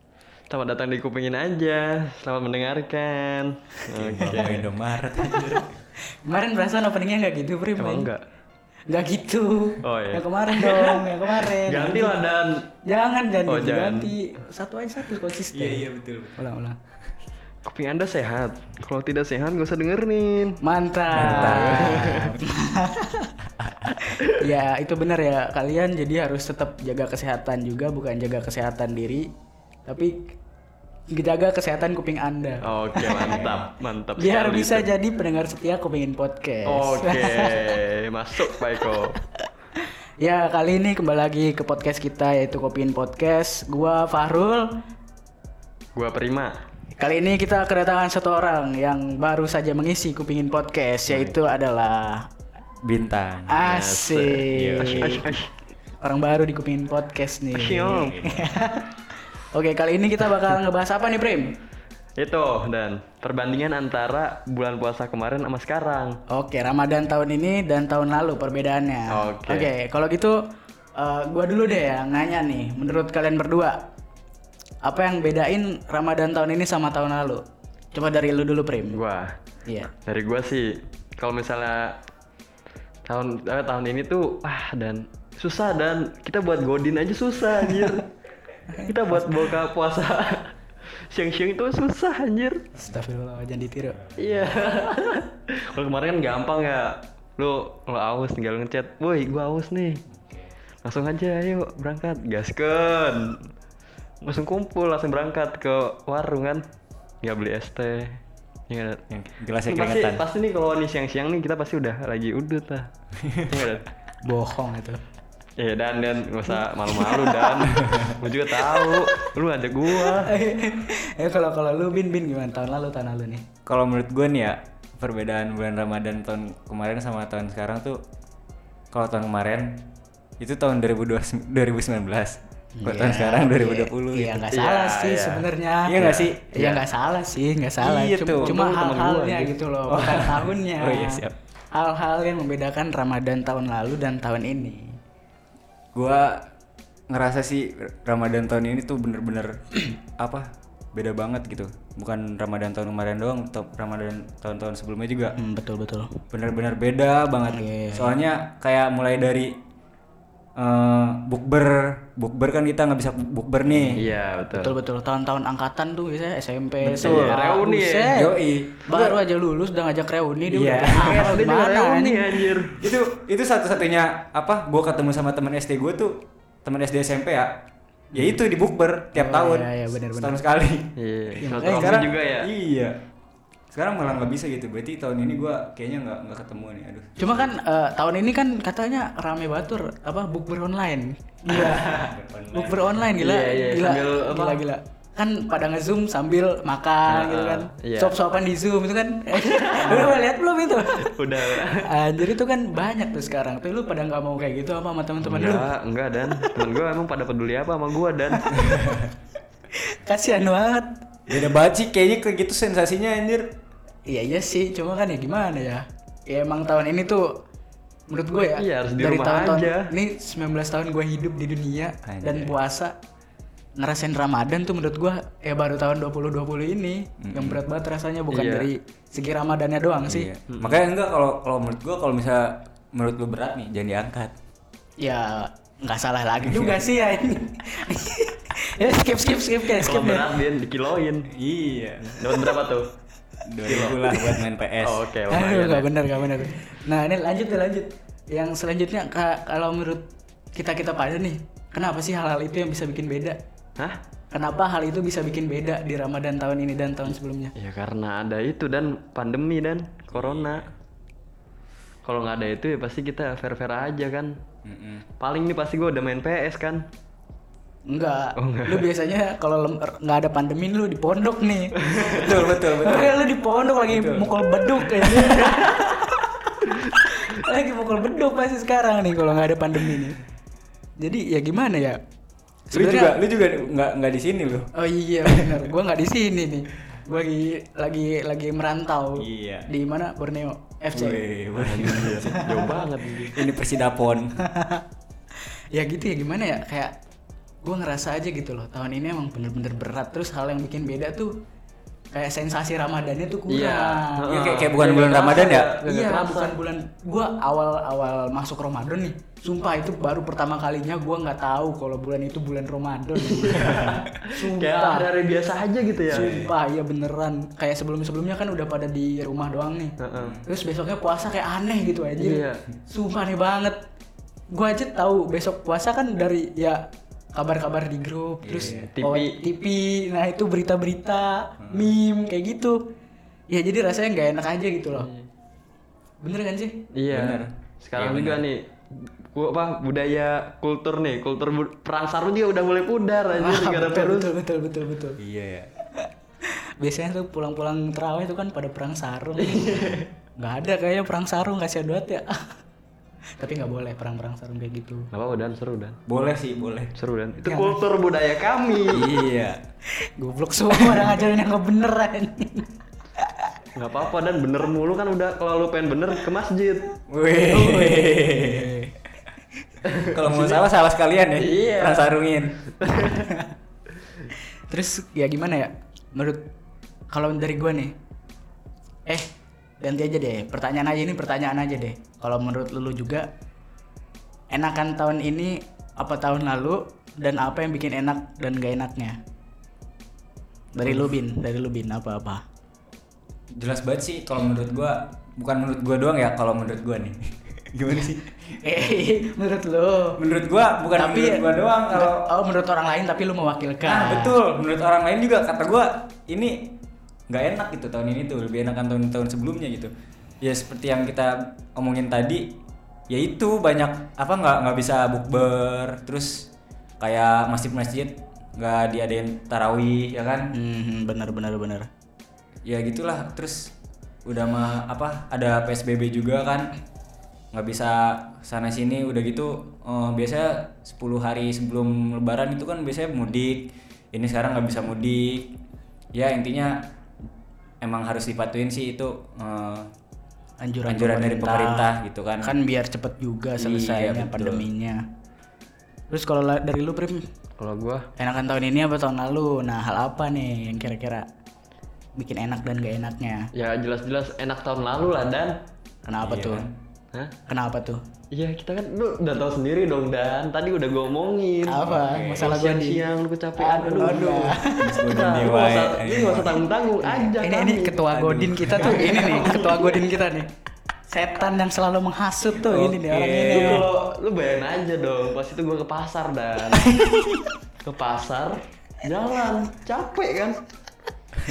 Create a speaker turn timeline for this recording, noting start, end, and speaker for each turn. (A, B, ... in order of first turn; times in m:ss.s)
0:00.5-0:04.7 A
0:04.0-0:05.7 B
0:04.2-0:04.6 C
0:05.2-0:05.5 C
0:06.2-0:08.1 C
0:07.8-0:08.2 A
0:08.9-0:12.2 C
0:09.8-0:12.6 A
0:12.8-0:16.8 C
0:13.5-0:14.1 A
0:15.5-0:16.4 B
0:17.6-0:20.6 A
0:20.6-0:23.3 C
0:21.1-0:22.2 B
0:21.2-0:22.4 A
0:23.9-0:29.2 C
0:29.8-0:30.2 C
0:31.1-0:33.5 C
0:32.6-0:34.9 A
0:33.2-0:33.7 B
0:34.2-0:37.7 C
0:36.6-0:39.2 A
0:40.2-0:44.7 C
0:45.9-0:46.5 A
0:47.0-0:52.3 C
0:52.8-0:53.6 B
0:53.5-0:55.2 C
0:53.6-0:55.5 A
0:54.5-0:55.3 B
0:56.0-1:01.5 C
0:57.5-0:58.3 A
0:58.2-0:58.5 B
1:02.2-1:06.2 A
1:06.3-1:10.3 C
1:09.1-1:09.7 A
1:11.0-1:13.8 C
1:14.8-1:17.4 C
1:17.9-1:19.0 C
1:18.9-1:19.4 A
1:19.6-1:19.9 C
1:20.0-1:22.0 A
1:23.0-1:28.1 A
1:28.7-1:29.5 C
1:28.8-1:30.5 A
1:31.1-1:32.6 A
1:32.8-1:34.0 C
1:34.0-1:34.5 B
1:34.2-1:40.0 A
1:40.2-1:40.5 B
1:40.8-1:43.4 A
1:44.2-1:46.6 A
1:47.2-1:49.0 A
1:49.1-1:50.2 B
1:49.7-1:52.9 A
1:53.2-1:53.6 B
1:53.5-1:53.8 A
1:54.2-1:55.0 C
1:55.6-2:00.3 A
1:56.9-1:57.5 C
1:57.8-1:58.1 B
2:00.1-2:03.4 C
2:03.6-2:08.0 B
2:08.9-2:09.8 B
2:10.4-2:14.4 B
2:12.8-2:21.2 C
2:14.5-2:16.8 A
2:15.8-2:16.5 B
2:17.8-2:18.5 B
2:18.4-2:19.5 A
2:19.9-2:21.3 B
2:21.7-2:24.9 C
2:25.9-2:26.4 B
2:27.1-2:29.6 B
2:30.2-2:35.4 B
2:35.4-2:36.2 C
2:36.3-2:39.5 B
2:37.5-2:38.1 C
2:40.6-2:44.0 B
2:43.9-2:44.8 A
2:44.5-2:52.4 C
2:46.8-2:47.4 B
2:47.0-2:48.2 A
2:48.1-2:49.1 B
2:50.5-2:51.3 B
2:50.8-2:52.8 A
2:52.8-2:57.5 B
2:58.1-3:00.9 B
2:59.1-3:00.4 C
3:01.0-3:02.5 A
3:01.4-3:02.1 C
3:01.5-3:02.9 B
3:03.7-3:07.5 B
3:07.2-3:12.0 C
3:11.6-3:13.0 B
3:12.5-3:25.7 C
3:13.1-3:14.6 A
3:17.1-3:18.1 A
3:19.5-3:20.2 A
3:21.0-3:21.9 A
3:25.2-3:28.6 A
3:28.6-3:29.1 B
3:29.7-3:30.9 C
3:31.3-3:33.5 B
3:34.1-3:37.2 C
3:38.1-3:42.9 C
3:38.6-3:39.9 A
3:42.0-3:42.6 B
3:43.8-3:50.3 C
3:47.2-3:47.6 B
3:48.3-3:48.7 A
3:50.0-3:54.3 B
3:50.5-3:50.8 A
3:55.0-4:00.3 C
3:56.5-3:56.8 B
3:59.7-4:01.3 A
4:01.3-4:02.4 B
4:02.1-4:02.9 A
4:03.4-4:05.0 B
4:03.7-4:06.5 A
4:05.3-4:13.4 C
4:14.3-4:17.5 C
4:17.6-4:20.7 A
4:20.1-4:20.6 B
4:22.0-4:24.3 A
4:24.6-4:25.0 B
4:25.2-4:26.8 A
4:27.9-4:31.8 C
4:28.4-4:28.9 A
4:31.8-4:32.3 A
4:32.1-4:33.3 B
4:32.5-4:40.2 C
4:33.9-4:35.4 B
4:41.0-4:42.0 C
4:42.7-4:43.1 C
4:42.7-4:44.7 B
4:44.7-4:51.2 C
4:45.2-4:45.6 B
4:49.2-4:49.7 B
4:50.9-4:52.3 B
4:51.6-4:53.4 A
4:52.1-4:52.8 C
4:53.3-4:54.3 B
4:54.4-4:54.8 C
4:55.7-4:56.9 C
4:57.6-5:01.3 C
5:02.1-5:04.2 C
5:03.5-5:06.6 A
5:04.3-5:05.7 B
5:05.8-5:15.1 C
5:13.2-5:16.3 A
5:16.0-5:16.5 B
5:16.1-5:23.8 C
5:20.0-5:20.4 A
5:20.2-5:20.4 B
5:22.2-5:22.6 A
5:24.5-5:26.8 C
5:27.3-5:32.8 C
5:28.4-5:28.9 B
5:28.7-5:29.3 A
5:31.6-5:31.9 B
5:33.5-5:35.1 C
5:34.9-5:35.2 A
5:36.2-5:36.8 C
5:36.9-5:44.3 A
5:37.1-5:38.4 B
5:43.3-5:45.2 C
5:45.2-5:45.7 B
5:46.8-5:49.7 C
5:49.4-5:50.1 A
5:50.4-5:52.4 C
5:53.4-5:55.1 C
5:55.1-5:56.0 A
5:56.1-5:56.9 B
5:57.0-5:59.1 A
5:57.4-5:57.8 C
5:58.9-5:59.6 B
6:00.2-6:02.7 C
6:03.2-6:03.5 C
6:03.8-6:06.9 A
6:07.1-6:08.8 B
6:07.5-6:08.8 C
6:09.9-6:10.6 A
6:10.0-6:12.6 B
6:11.4-6:12.1 A
6:12.9-6:13.5 C
6:14.7-6:16.5 C
6:17.1-6:17.9 C
6:19.8-6:23.3 C
6:24.5-6:29.2 C
6:30.7-6:32.4 C
6:33.6-6:37.2 B
6:37.7-6:38.3 B
6:38.6-6:40.2 C
6:40.2-6:42.2 B
6:40.9-6:44.4 C
6:43.8-6:46.7 B
6:47.3-6:49.9 B
6:50.4-6:52.5 B
6:53.1-6:56.5 B
6:57.0-7:00.5 B
7:00.5-7:01.9 C
7:02.6-7:03.7 B
7:04.2-7:06.7 B
7:07.5-7:15.6 B
7:16.1-7:16.8 B
7:17.8-7:19.9 B
7:20.6-7:21.9 C
7:20.9-7:22.5 B
7:22.4-7:25.0 C
7:23.6-7:24.6 B
7:26.1-7:27.2 C
7:27.6-7:28.0 A
7:28.2-7:31.2 C
7:32.2-7:33.5 C
7:33.5-7:35.5 A
7:36.0-7:36.7 C
7:36.2-7:36.7 B
7:37.5-7:38.0 C
7:38.3-7:50.0 A
7:41.7-7:43.0 C
7:41.9-7:42.5 B
7:43.6-7:45.0 C
7:44.8-7:46.6 B
7:47.0-7:50.5 C
7:48.7-7:49.0 B
7:51.1-7:53.9 C
7:52.6-7:53.9 B
7:53.5-7:56.9 A
7:56.8-7:57.4 C
7:57.8-8:00.6 A